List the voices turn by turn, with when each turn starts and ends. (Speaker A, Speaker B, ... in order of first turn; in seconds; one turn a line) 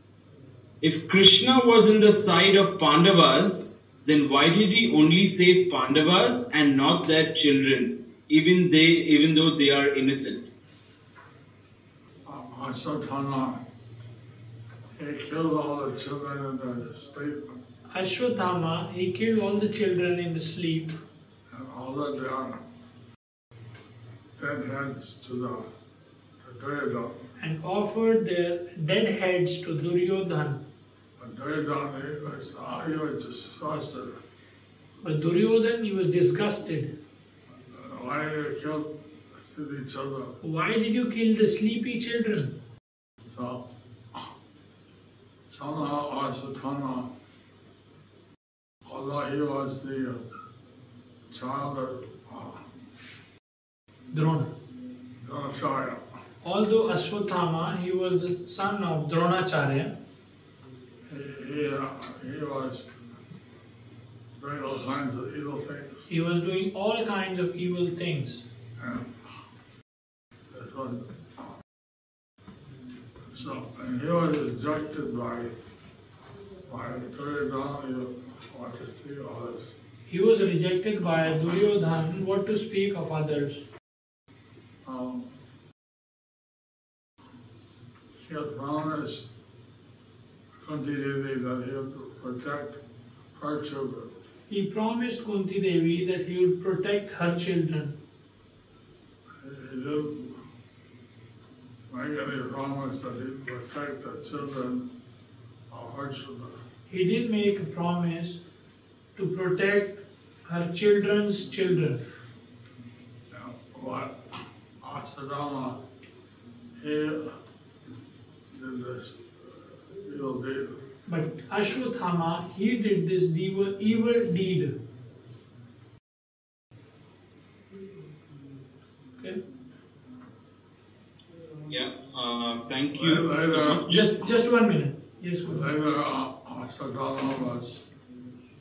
Speaker A: 0.8-10.4
Speaker B: 12.2-13.6
Speaker B: 15.0-17.6
Speaker C: 17.9-20.9
Speaker B: 21.5-22.6
Speaker B: 24.4-25.7
Speaker B: 26.4-27.2
Speaker C: 27.4-30.6
Speaker B: 31.2-34.2
Speaker C: 35.0-36.9
Speaker B: 37.6-40.4
Speaker C: 40.4-42.5
Speaker B: 43.2-44.2
Speaker B: 45.5-47.1
Speaker B: 48.9-50.2
Speaker B: 51.3-52.6
Speaker C: 54.1-54.5
Speaker B: 55.2-56.0
Speaker C: 56.4-59.9
Speaker B: 61.1-62.9
Speaker B: 64.4-66.0
Speaker C: 66.1-68.5
Speaker B: 68.8-69.2
Speaker B: 70.5-71.0
Speaker B: 73.3-75.5
Speaker B: 76.7-79.7
Speaker C: 80.1-83.6
Speaker B: 84.8-85.2
Speaker B: 88.2-89.3
Speaker B: 90.6-92.8
Speaker B: 93.3-94.1
Speaker C: 94.5-97.9
Speaker B: 99.4-100.4
Speaker B: 101.9-104.9
Speaker B: 105.7-106.5
Speaker C: 106.9-108.4
Speaker C: 109.2-112.0
Speaker B: 113.3-115.8
Speaker B: 116.8-117.3
Speaker B: 118.5-120.8
Speaker C: 121.1-124.8
Speaker A: 131.7-134.1
Speaker B: 132.9-133.9
Speaker C: 133.8-135.7
Speaker B: 135.4-137.8